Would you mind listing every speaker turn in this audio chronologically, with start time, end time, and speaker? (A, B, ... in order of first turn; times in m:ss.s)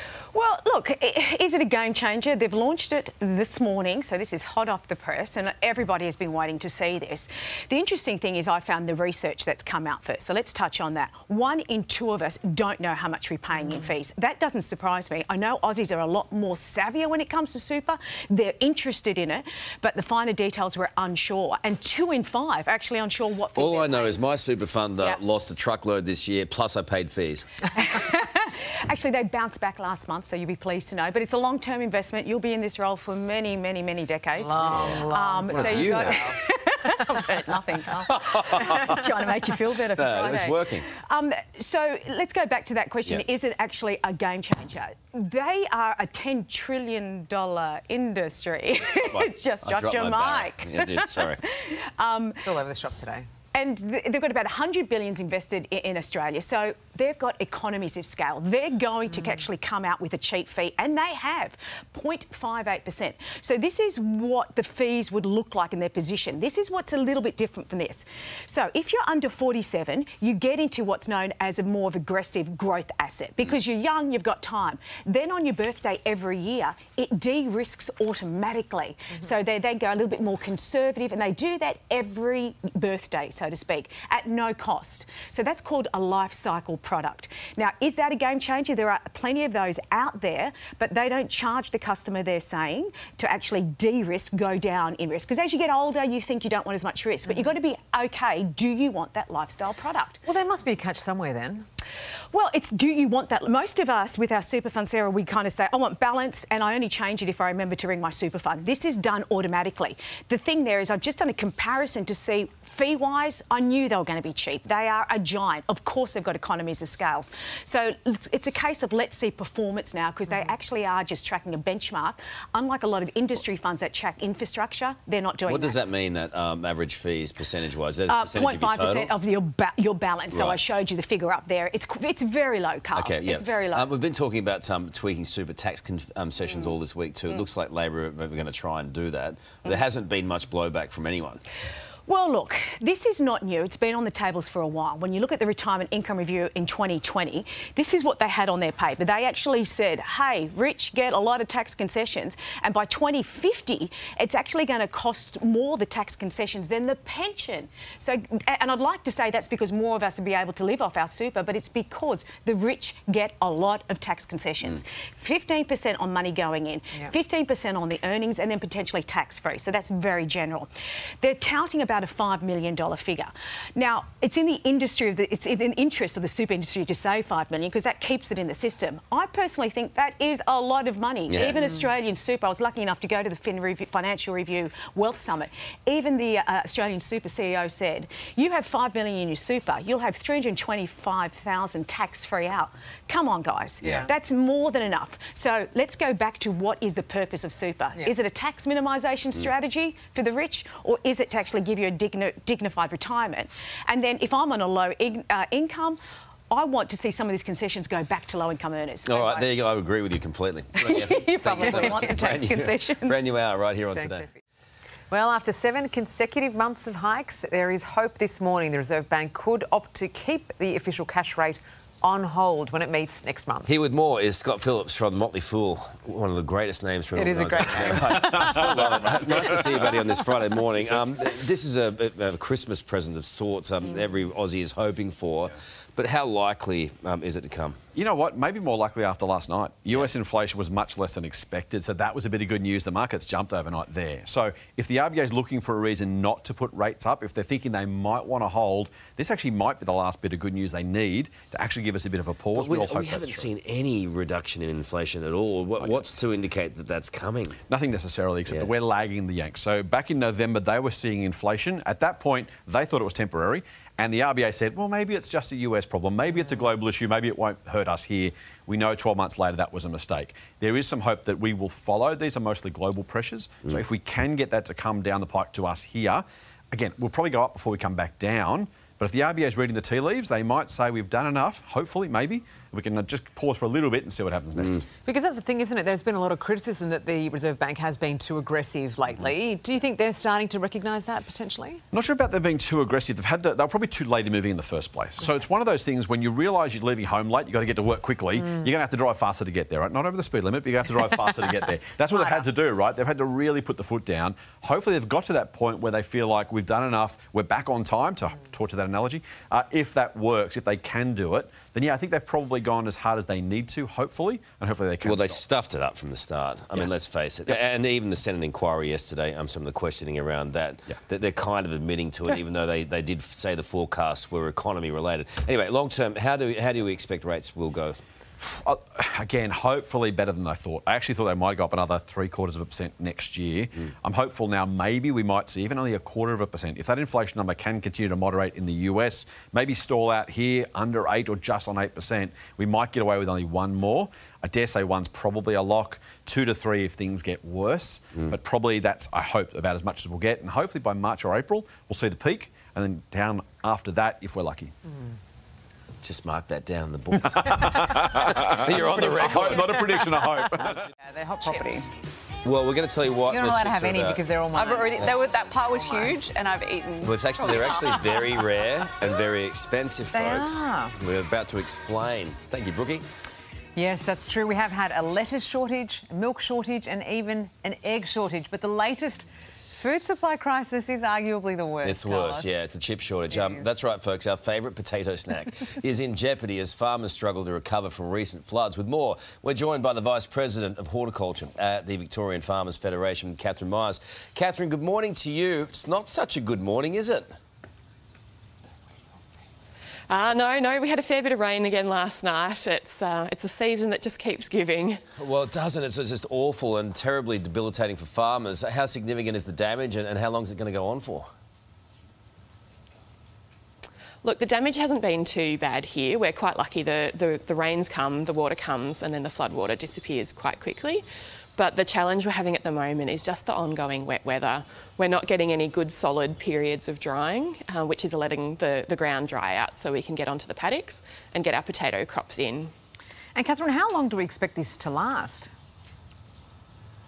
0:00.3-0:24.3 A
0:23.6-0:27.6 B
0:27.7-0:52.4 A
0:34.4-0:36.3 C
0:34.6-0:35.0 B
0:35.5-0:36.3 B
0:38.1-0:39.1 B
0:39.9-0:40.9 B
0:48.9-0:51.4 B
0:52.4-0:53.3 C
0:53.5-1:40.2 A
1:40.3-1:41.7 C
1:42.3-2:05.8 A
2:05.5-2:09.1 B
2:08.1-2:13.9 A
2:10.3-2:10.6 B
2:12.9-2:21.4 B
2:22.1-2:50.7 A
2:51.2-3:26.0 A
3:01.3-3:01.6 B
3:26.5-3:29.5 A
3:29.1-3:34.3 B
3:30.8-3:33.2 A
3:31.6-3:32.0 C
3:35.1-3:43.7 C
3:43.7-3:57.8 B
3:47.2-3:48.6 C
3:58.0-4:13.5 D
4:12.5-4:17.6 B
4:17.7-4:44.8 D
4:45.0-4:51.8 C
4:51.9-5:15.4 D
5:02.2-5:02.4 C
5:15.0-5:28.0 B
5:28.4-5:54.7 D
5:56.0-6:00.0 B
5:57.3-6:00.8 D
6:01.0-6:01.9 C
6:02.4-6:05.2 B
6:03.3-6:06.3 C
6:04.6-6:07.1 E
6:07.0-6:13.0 B
6:10.1-6:11.0 C
6:13.8-6:22.5 C
6:21.8-6:37.3 B
6:23.3-6:23.7 C
6:40.1-6:45.0 F
6:45.2-6:51.3 B
6:54.2-7:01.0 F
7:01.6-7:12.7 F
7:13.4-7:15.5 C